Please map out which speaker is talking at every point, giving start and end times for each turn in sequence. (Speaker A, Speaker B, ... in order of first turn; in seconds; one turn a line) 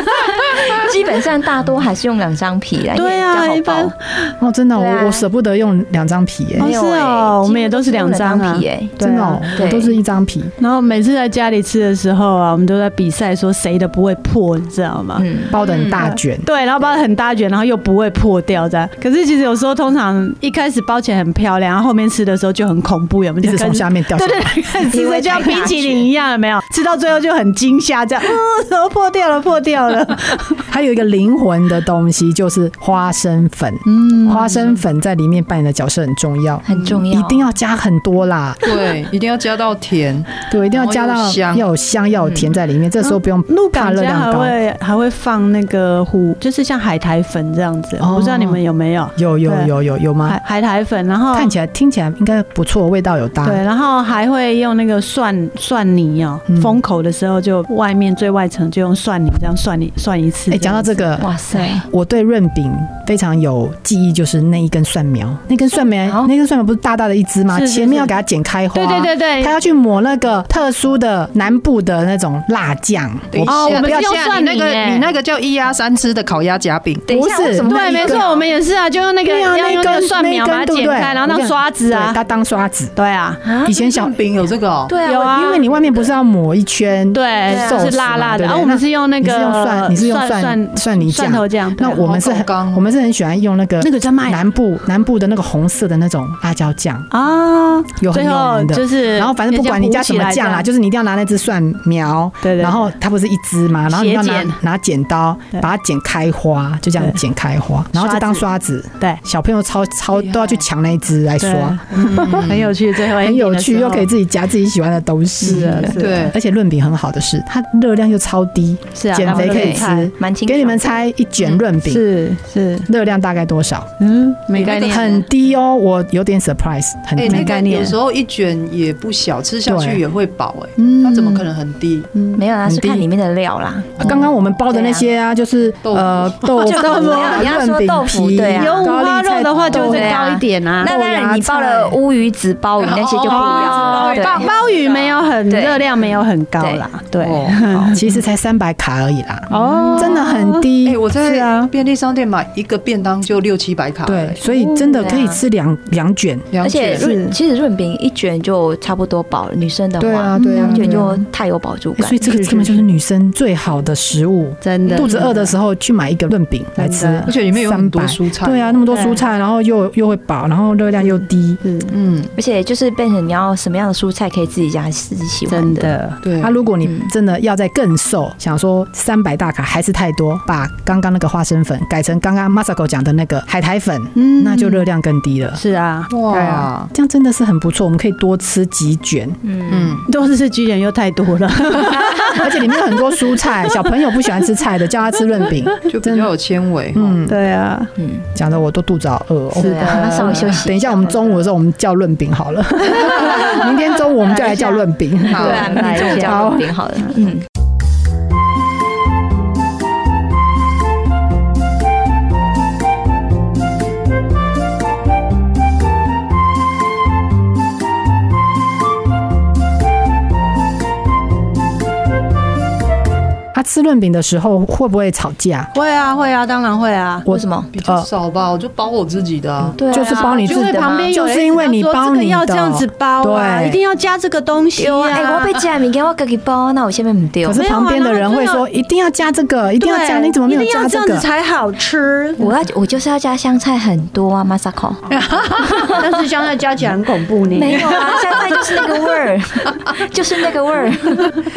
Speaker A: 0.4-3.9
Speaker B: 2.9-4.3
Speaker C: 4.4-6.7
Speaker A: 4.8-5.3
Speaker B: 6.6-9.8
Speaker A: 6.6-9.0
Speaker C: 9.0-10.5
Speaker A: 9.5-9.9
Speaker B: 10.6-30.6
Speaker A: 15.2-15.6
Speaker C: 15.5-16.5
Speaker D: 15.6-16.1
Speaker C: 23.4-24.7
Speaker A: 24.9-26.1
Speaker C: 30.7-38.7
Speaker B: 33.9-34.8
Speaker A: 36.6-37.5
Speaker D: 38.6-41.7
Speaker C: 40.5-44.6
Speaker B: 43.0-49.7
Speaker C: 48.0-48.6
Speaker C: 49.2-50.4
Speaker B: 50.3-51.5
Speaker C: 51.3-53.6
Speaker B: 53.4-61.8
Speaker C: 56.5-56.8
Speaker C: 60.5-61.3
Speaker A: 61.2-61.9
Speaker C: 61.8-74.1
Speaker A: 66.0-66.3
Speaker B: 67.5-68.1
Speaker B: 68.7-69.5
Speaker D: 73.3-77.1
Speaker B: 73.5-75.0
Speaker A: 77.1-78.5
Speaker C: 77.1-78.2
Speaker B: 77.6-82.2
Speaker C: 79.2-83.0
Speaker B: 83.0-83.4
Speaker A: 83.4-83.8
Speaker C: 83.6-84.1
Speaker D: 83.7-85.0
Speaker A: 84.9-86.1
Speaker B: 85.0-85.8
Speaker C: 85.2-97.1
Speaker B: 87.1-92.0
Speaker A: 87.5-88.0
Speaker D: 91.9-92.9
Speaker B: 93.8-94.5
Speaker B: 97.1-100.7
Speaker C: 98.0-122.1
Speaker B: 102.4-102.9
Speaker B: 103.9-104.6
Speaker B: 108.0-108.5
Speaker D: 110.1-110.7
Speaker B: 111.4-114.1
Speaker D: 112.0-112.7
Speaker B: 115.4-116.3
Speaker D: 115.8-116.3
Speaker B: 119.0-120.1
Speaker A: 119.2-120.9
Speaker B: 121.8-122.9
Speaker C: 122.9-123.9
Speaker B: 124.0-125.2
Speaker D: 124.5-125.1
Speaker C: 124.7-127.5
Speaker D: 127.2-132.1
Speaker B: 127.2-128.0
Speaker C: 129.7-130.0
Speaker B: 130.8-131.4
Speaker B: 132.1-132.4
Speaker A: 132.3-135.1
Speaker C: 132.6-133.1
Speaker C: 134.0-140.2
Speaker D: 135.8-136.5
Speaker B: 136.5-137.5
Speaker A: 136.6-139.0
Speaker B: 138.4-140.9
Speaker A: 139.7-145.9
Speaker C: 140.8-141.9
Speaker D: 142.8-145.1
Speaker B: 143.3-148.2
Speaker A: 146.6-146.9
Speaker D: 147.2-148.0
Speaker C: 147.9-151.0
Speaker B: 149.5-151.7
Speaker D: 149.6-150.2
Speaker D: 150.8-154.4
Speaker C: 154.1-156.5
Speaker B: 154.4-155.1
Speaker A: 154.9-155.4
Speaker D: 156.5-157.1
Speaker A: 156.6-162.6
Speaker B: 157.0-157.4
Speaker C: 160.0-161.2
Speaker B: 160.4-161.0
Speaker C: 162.0-171.6
Speaker B: 164.6-165.5
Speaker D: 164.9-165.3
Speaker B: 166.8-167.3
Speaker D: 167.3-168.8
Speaker B: 168.9-169.2
Speaker B: 171.6-171.9
Speaker D: 171.9-172.3
Speaker A: 172.3-175.9
Speaker B: 175.5-176.2
Speaker D: 176.2-176.6
Speaker C: 176.4-185.6
Speaker A: 176.8-177.1
Speaker B: 184.2-184.9
Speaker B: 185.6-186.7
Speaker D: 186.1-186.9
Speaker C: 186.9-189.4
Speaker A: 189.4-190.0
Speaker D: 189.7-190.1
Speaker B: 190.1-192.6
Speaker C: 192.3-196.3
Speaker D: 195.9-197.2
Speaker C: 196.9-197.4
Speaker B: 197.3-197.9
Speaker A: 198.0-198.2
Speaker C: 198.3-206.7
Speaker A: 199.5-201.3
Speaker B: 199.6-200.6
Speaker B: 202.9-206.5
Speaker D: 205.3-205.8
Speaker A: 205.3-207.4
Speaker C: 223.5-225.7
Speaker B: 225.7-227.3
Speaker C: 227.3-228.1
Speaker A: 227.3-227.7
Speaker D: 227.7-229.8
Speaker C: 229.7-233.8
Speaker A: 229.8-231.1
Speaker B: 229.9-235.6
Speaker A: 234.8-237.6
Speaker C: 237.4-241.3
Speaker B: 237.5-238.7
Speaker B: 239.8-242.5
Speaker A: 242.4-246.1
Speaker D: 245.1-245.4
Speaker B: 245.6-249.0
Speaker A: 247.5-251.4